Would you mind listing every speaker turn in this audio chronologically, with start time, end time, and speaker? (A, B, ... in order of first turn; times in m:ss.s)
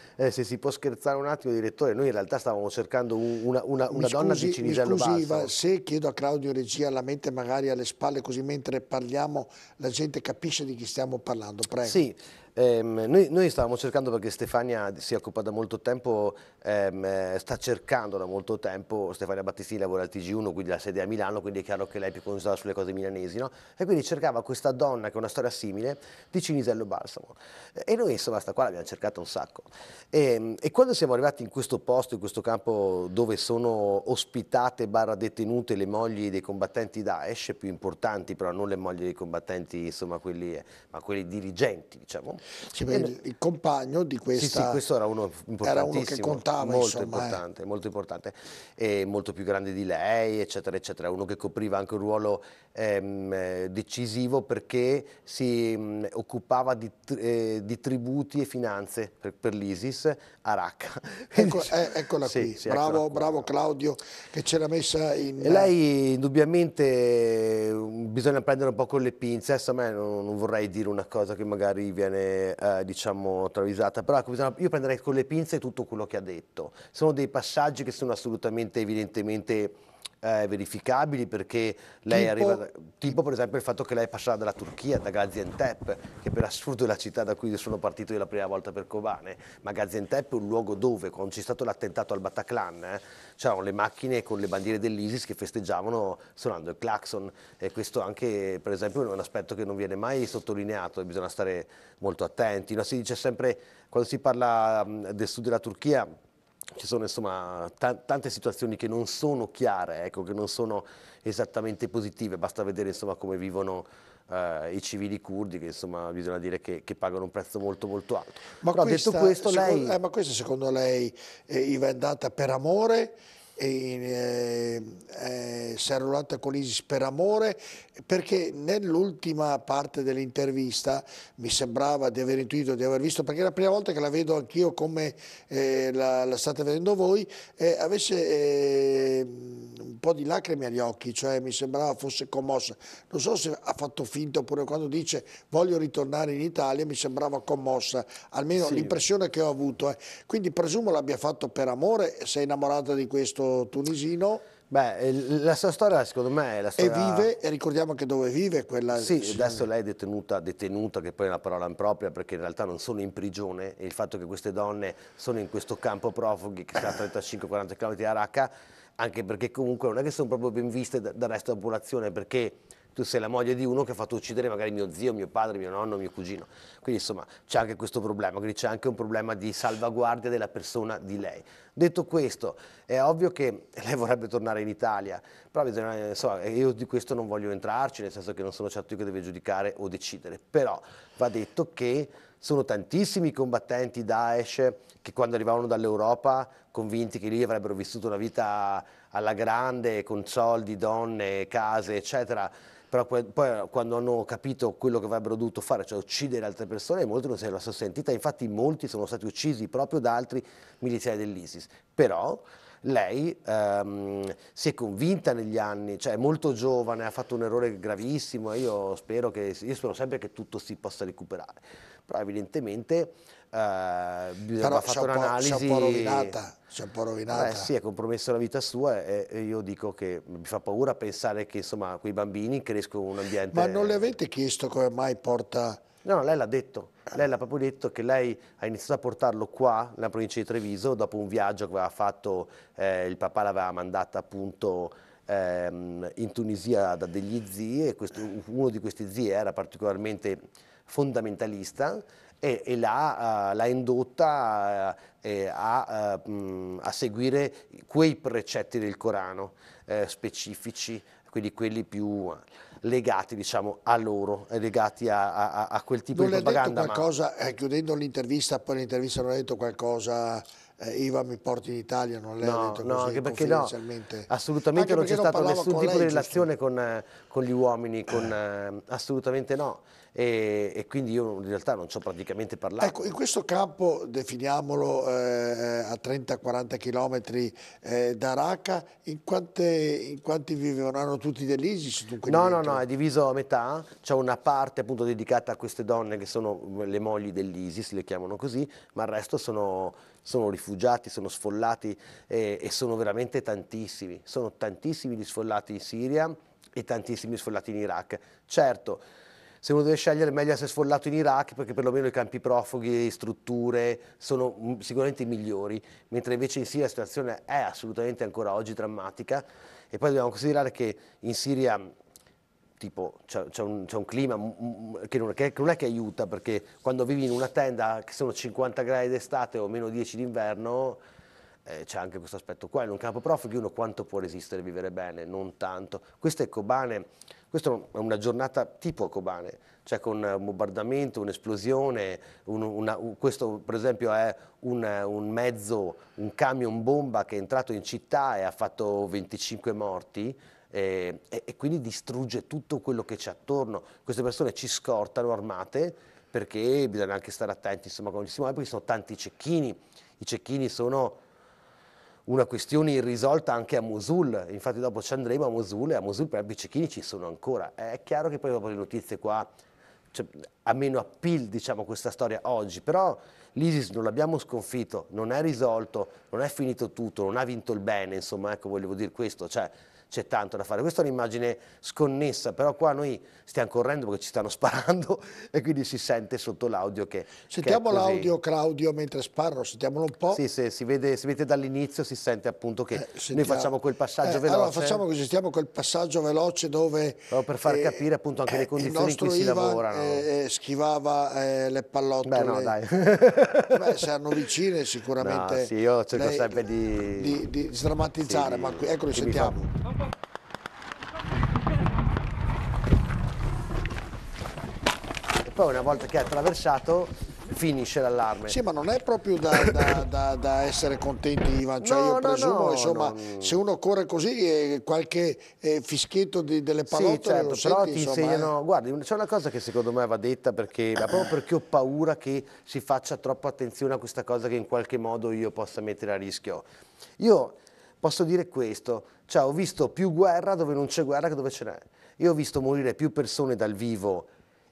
0:00.2-0:05.5 A
0:03.9-0:12.0 B
0:11.8-0:43.1 A
0:42.7-0:44.8 B
0:44.3-1:03.5 A
0:45.6-0:47.4 B
1:01.3-1:05.7 B
1:05.4-1:46.1 A
1:22.1-1:22.6 B
1:46.7-2:00.0 A
1:58.6-2:34.4 B
2:28.6-2:29.0 A
2:34.7-2:37.3 A
2:36.8-2:39.6 B
2:38.9-3:46.3 A
3:44.6-3:47.7 B
3:47.3-3:54.1 A
3:53.5-3:55.8 B
3:56.0-4:27.0 A
4:26.1-4:36.5 B
4:32.4-4:33.7 A
4:34.3-4:43.1 A
4:42.8-4:52.8 B
4:52.2-5:09.0 A
5:09.6-5:21.9 A
5:22.8-5:31.0 A
5:31.6-6:01.2 A
6:02.3-6:09.5 A
6:10.1-6:28.3 A
6:27.5-6:30.4 B
6:30.3-6:35.0 A
6:32.9-6:42.8 B
6:37.3-6:40.2 A
6:42.2-6:44.0 A
6:43.7-6:49.7 B
6:45.2-6:47.4 A
6:48.2-6:49.6 A
6:55.4-6:58.6 A
6:58.5-7:08.5 B
7:01.8-7:03.6 A
7:06.9-7:16.6 A
7:17.2-7:24.3 A